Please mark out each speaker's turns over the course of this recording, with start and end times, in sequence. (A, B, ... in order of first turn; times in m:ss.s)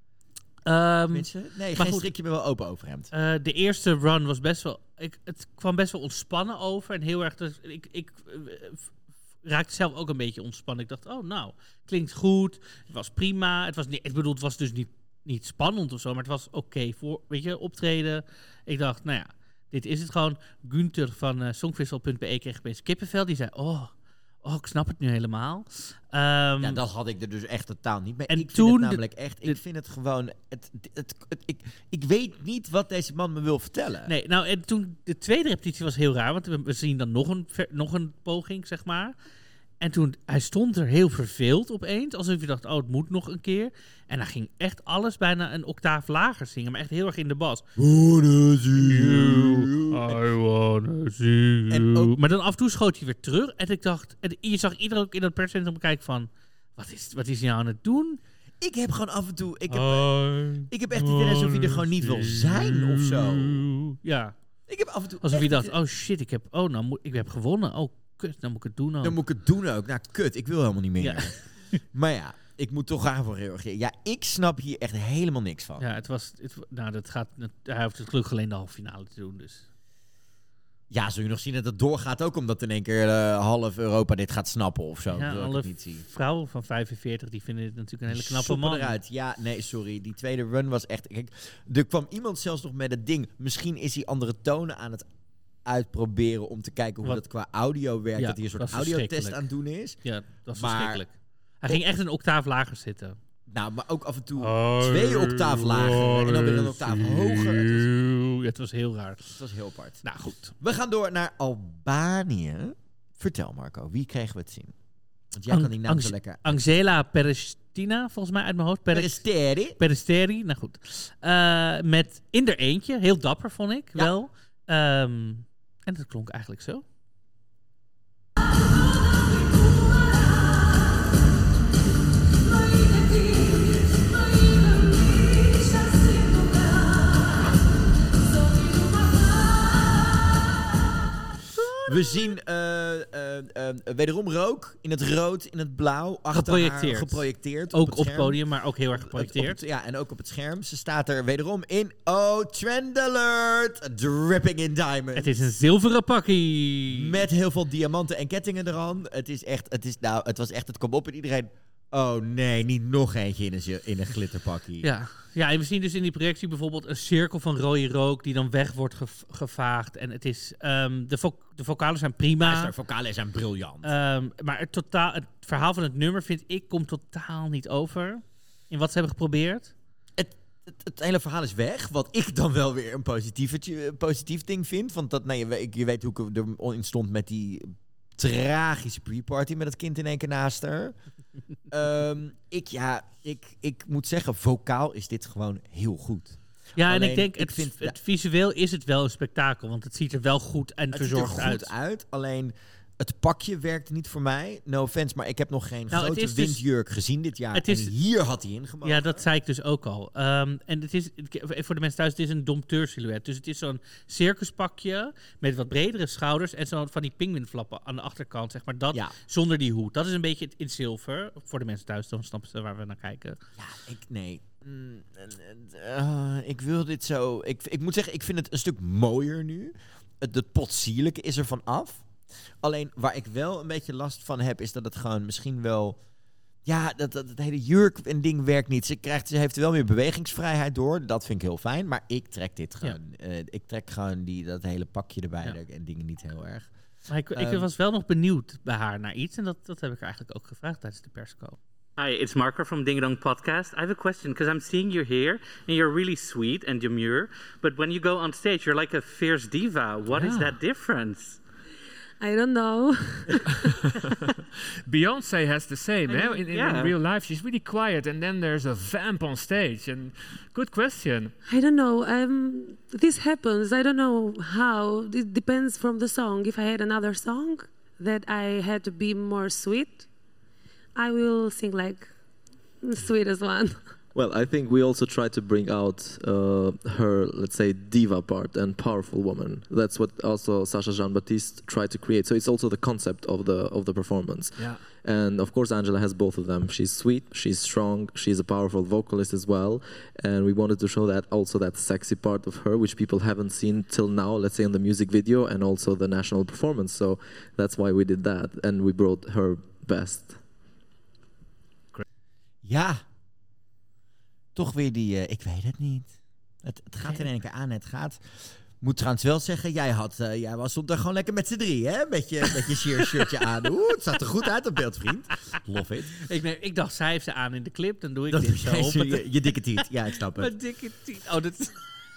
0:00.7-0:02.1 A
0:01.1-0:03.1 B
0:03.1-0:26.8 A
0:26.6-0:34.1 B
0:28.3-0:29.6 A
0:34.1-0:39.2 A
0:39.8-0:47.6 A
0:47.8-0:50.2 B
0:48.8-0:58.2 A
0:51.7-0:52.2 B
0:58.6-1:03.7 B
0:59.7-1:04.4 A
1:04.7-1:05.7 B
1:05.2-1:09.2 A
1:09.0-1:15.9 B
1:11.0-1:11.8 A
1:15.8-1:19.7 A
1:20.9-1:26.0 B
1:25.1-1:29.0 A
1:28.1-1:35.1 B
1:35.6-1:41.0 B
1:38.2-1:39.4 A
1:40.0-1:43.2 A
1:43.5-1:47.9 B
1:44.4-1:49.4 A
1:49.3-1:50.0 B
1:50.0-1:50.6 A
1:50.6-1:54.8 B
1:55.3-1:56.6 B
1:55.5-1:59.2 A
1:58.9-1:59.8 B
1:59.8-2:06.8 A
2:21.6-2:22.3 A
2:21.8-2:28.4 B
2:26.3-2:29.6 A
2:28.9-2:35.5 B
2:35.2-2:37.2 A
2:36.9-2:44.9 B
2:44.8-2:52.7 A
2:52.4-2:53.9 B
2:53.8-2:59.7 A
3:00.2-3:11.0 B
3:11.7-3:18.0 B
3:16.8-3:21.7 A
3:20.9-3:29.3 B
3:25.9-3:26.6 A
3:27.5-3:27.9 A
3:28.8-3:43.4 A
3:43.6-3:52.1 B
3:52.6-3:56.0 B
3:56.6-4:06.7 B
4:07.1-4:11.6 A
4:07.3-4:07.7 B
4:12.0-4:21.4 C
4:20.1-4:20.5 A
4:22.2-4:23.5 D
4:24.8-4:31.3 E
4:26.1-4:27.0 C
4:31.5-4:40.1 D
4:41.0-4:42.1 D
4:42.8-4:43.9 D
4:44.1-5:10.4 F
4:54.6-4:54.8 E
5:12.6-5:13.0 B
5:14.6-5:26.3 B
5:26.2-5:31.8 A
5:28.3-5:30.6 B